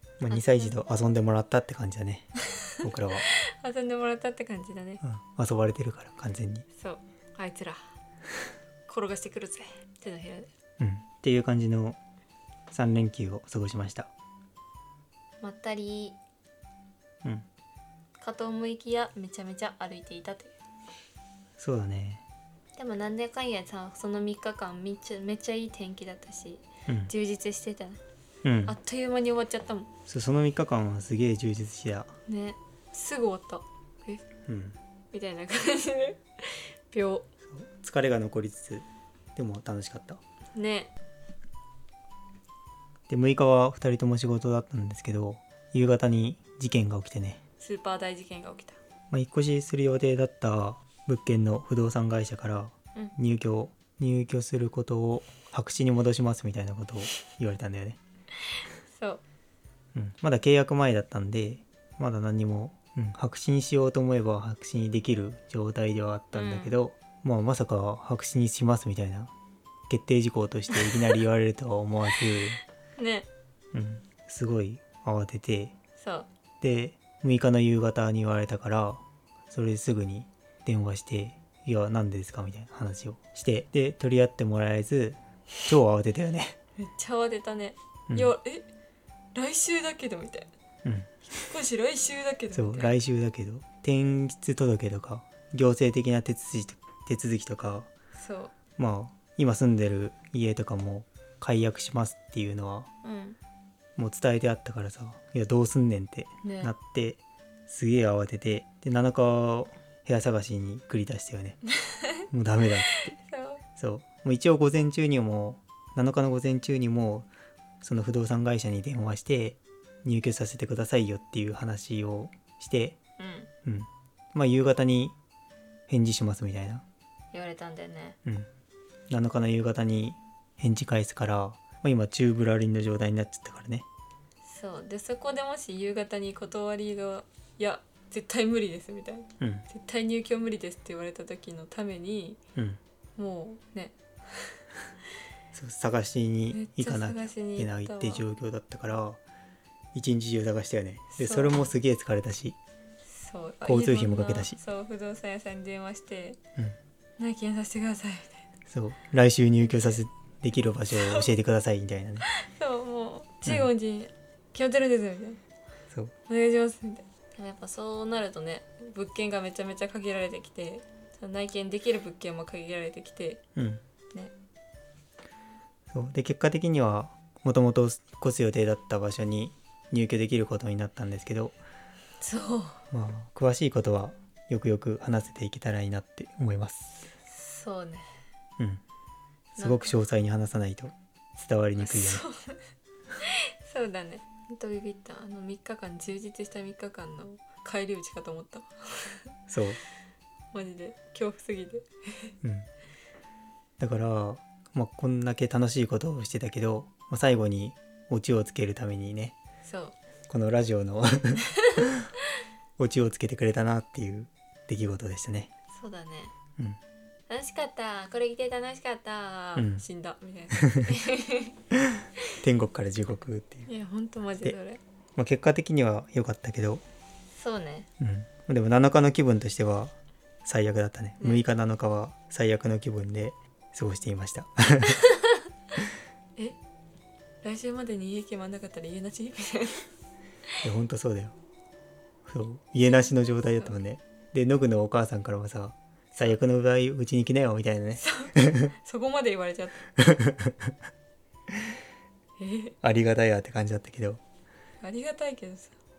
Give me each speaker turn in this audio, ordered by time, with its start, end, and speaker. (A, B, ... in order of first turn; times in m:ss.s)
0:00.2-0:03.3 A
0:00.3-0:01.0 B
0:03.4-0:05.0 B
0:05.0-0:06.6 A
0:06.7-0:07.8 B
0:08.9-0:10.5 B
0:10.8-0:12.0 A
0:12.7-0:14.1 A
0:15.4-0:16.2 B
0:18.2-0:20.5 B
0:21.6-0:22.2 A
0:22.8-0:28.0 B
0:26.9-0:27.1 A
0:28.4-0:28.8 A
0:28.6-0:29.9 B
0:30.1-0:32.1 A
0:32.3-0:34.2 B
0:34.5-0:34.8 A
0:35.1-0:37.3 B
0:37.5-0:38.8 A
0:39.4-0:40.2 A
0:40.5-0:40.9 B
0:43.1-0:47.4 A
0:47.6-0:48.8 B
0:49.1-0:58.0 A
0:58.9-0:59.2 B
0:59.9-1:09.3 A
1:06.3-1:06.8 B
1:09.9-1:12.6 A
1:10.7-1:11.1 B
1:13.0-1:13.3 B
1:13.7-1:15.7 A
1:16.0-1:16.3 B
1:16.6-1:26.6 A
1:26.8-1:28.7 B
1:28.1-1:28.3 A
1:29.3-1:30.5 B
1:30.8-1:31.1 A
1:31.3-1:32.9 B
1:32.5-1:37.9 A
1:38.1-1:38.5 B
1:38.8-1:42.9 A
1:43.0-1:43.4 B
1:44.0-1:51.6 A
1:46.4-1:46.7 B
1:51.8-1:52.1 B
1:52.3-1:53.2 A
1:53.2-1:53.6 B
1:53.8-1:57.3 A
1:57.8-2:03.0 A
2:03.2-2:03.5 B
2:03.6-2:05.1 A
2:05.9-2:06.8 A
2:07.3-2:08.2 B
2:09.1-2:13.8 A
2:14.4-2:22.4 B
2:19.4-2:19.6 A
2:23.2-2:24.6 B
2:25.5-2:29.2 A
2:26.5-2:28.2 B
2:29.9-2:32.6 A
2:31.1-2:31.5 B
2:33.0-2:36.4 B
2:33.6-2:34.6 A
2:37.2-2:38.4 B
2:38.7-2:42.3 A
2:39.7-2:40.0 B
2:40.9-2:41.3 B
2:42.2-2:45.4 B
2:46.3-2:53.4 B
2:53.6-2:53.8 A
2:55.9-3:01.6 A
3:02.2-3:02.8 B
3:02.9-3:07.1 A
3:07.2-3:08.1 B
3:09.6-3:10.0 B
3:09.6-3:12.2 A
3:11.8-3:12.6 B
3:13.2-3:19.2 B
3:19.5-3:19.8 A
3:20.5-3:22.3 B
3:22.4-3:22.7 A
3:23.8-3:29.4 A
3:29.6-3:30.0 B
3:30.3-3:31.9 A
3:31.6-3:31.8 B
3:32.8-3:35.5 A
3:35.7-3:36.3 B
3:37.3-3:41.6 B
3:39.5-3:39.8 A
3:40.5-3:40.9 A
3:41.7-3:43.7 A
3:43.7-3:44.8 B
3:45.2-3:46.8 A
3:47.3-3:47.9 B
3:48.0-3:55.0 A
3:54.9-3:55.4 B
3:57.4-3:59.8 B
4:00.6-4:01.3 A
4:02.2-4:08.7 A
4:08.0-4:09.8 B
4:10.0-4:10.7 A
4:12.4-4:12.7 B
4:12.8-4:14.2 A
4:14.8-4:15.7 B